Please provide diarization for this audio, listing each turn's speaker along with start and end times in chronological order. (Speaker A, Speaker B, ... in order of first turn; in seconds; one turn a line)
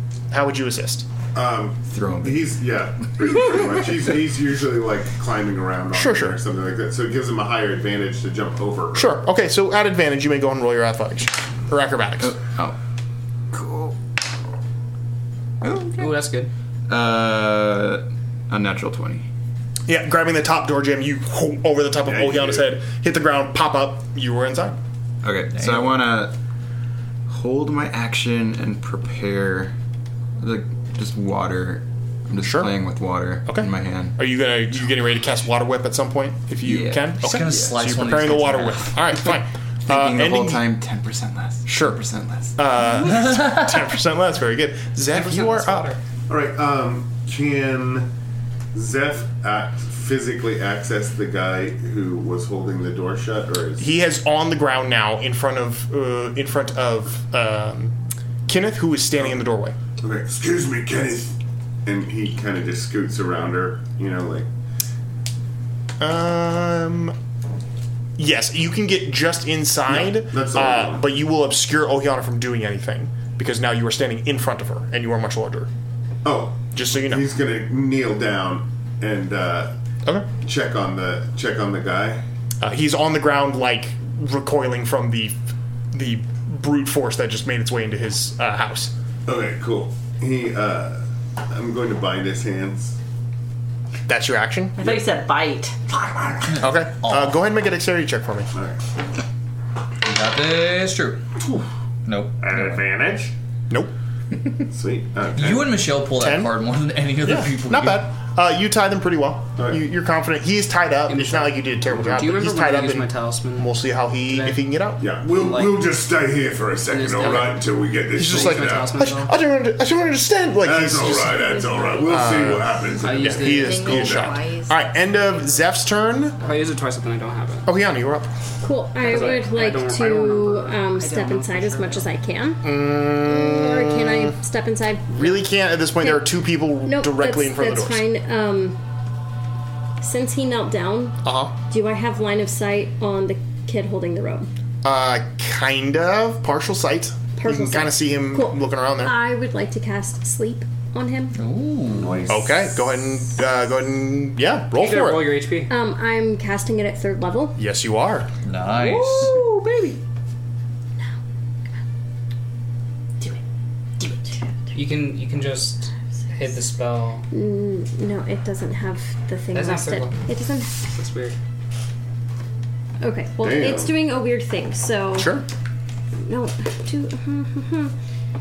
Speaker A: 0.3-1.1
Speaker B: 1.3-9.2
Speaker C: 1.9-2.5
Speaker A: 5.9-6.4
Speaker A: 8.9-12.3
Speaker C: 12.2-12.8
Speaker C: 13.5-13.9
Speaker D: 15.9-16.5
Speaker C: 16.9-19.2
Speaker A: 19.9-24.8
Speaker B: 22.1-22.7
Speaker C: 25.2-26.3
Speaker E: 25.5-25.9
Speaker C: 27.3-29.7
Speaker C: 30.4-34.2
Speaker A: 32.4-32.7
Speaker A: 33.5-40.7
Speaker C: 36.6-37.7
Speaker E: 37.1-39.0
Speaker C: 39.1-42.6
Speaker A: 41.6-45.9
Speaker D: 45.1-46.0
Speaker B: 46.3-48.1
Speaker B: 48.7-53.9
Speaker A: 53.8-59.8
Speaker B: 60.0-61.3
Speaker B: 61.8-64.5
Speaker A: 66.0-67.2
Speaker A: 68.2-75.7
Speaker B: 69.9-71.0
Speaker B: 76.2-79.7
Speaker A: 76.7-77.3
Speaker B: 80.4-82.2
Speaker A: 82.6-85.4
Speaker A: 85.9-88.9
Speaker B: 89.3-93.0
Speaker A: 94.1-94.8
Speaker F: 94.8-95.7
Speaker A: 96.6-98.5
Speaker E: 97.0-97.4
Speaker E: 100.0-101.2
Speaker E: 102.0-102.8
Speaker B: 102.4-103.3
Speaker B: 104.7-105.8
Speaker E: 105.3-108.0
Speaker A: 106.2-106.5
Speaker A: 107.2-115.1
Speaker D: 111.1-114.6
Speaker B: 111.9-112.2
Speaker B: 115.0-119.1
Speaker D: 115.3-115.9
Speaker D: 116.9-119.3
Speaker A: 118.1-126.4
Speaker B: 120.6-124.3
Speaker D: 123.0-123.9
Speaker F: 123.4-125.4
Speaker D: 126.4-127.7
Speaker A: 127.6-128.3
Speaker G: 128.6-138.8
Speaker D: 129.0-131.4
Speaker F: 130.9-132.0
Speaker A: 132.6-134.3
Speaker A: 135.1-138.0
Speaker G: 140.0-141.2
Speaker A: 141.2-141.6
Speaker G: 141.7-144.5
Speaker A: 144.8-149.1
Speaker G: 147.4-151.3
Speaker E: 151.3-152.3
Speaker B: 151.8-152.7
Speaker A: 152.3-155.4
Speaker D: 154.7-155.7
Speaker G: 155.7-157.6
Speaker A: 157.6-158.3
Speaker E: 158.4-159.4
Speaker D: 158.7-160.0
Speaker F: 164.0-164.3
Speaker D: 164.7-167.2
Speaker G: 167.3-170.8
Speaker D: 169.5-170.2
Speaker D: 170.8-171.3
Speaker G: 173.0-175.4
Speaker B: 173.4-174.0
Speaker A: 175.1-175.4
Speaker G: 176.2-177.9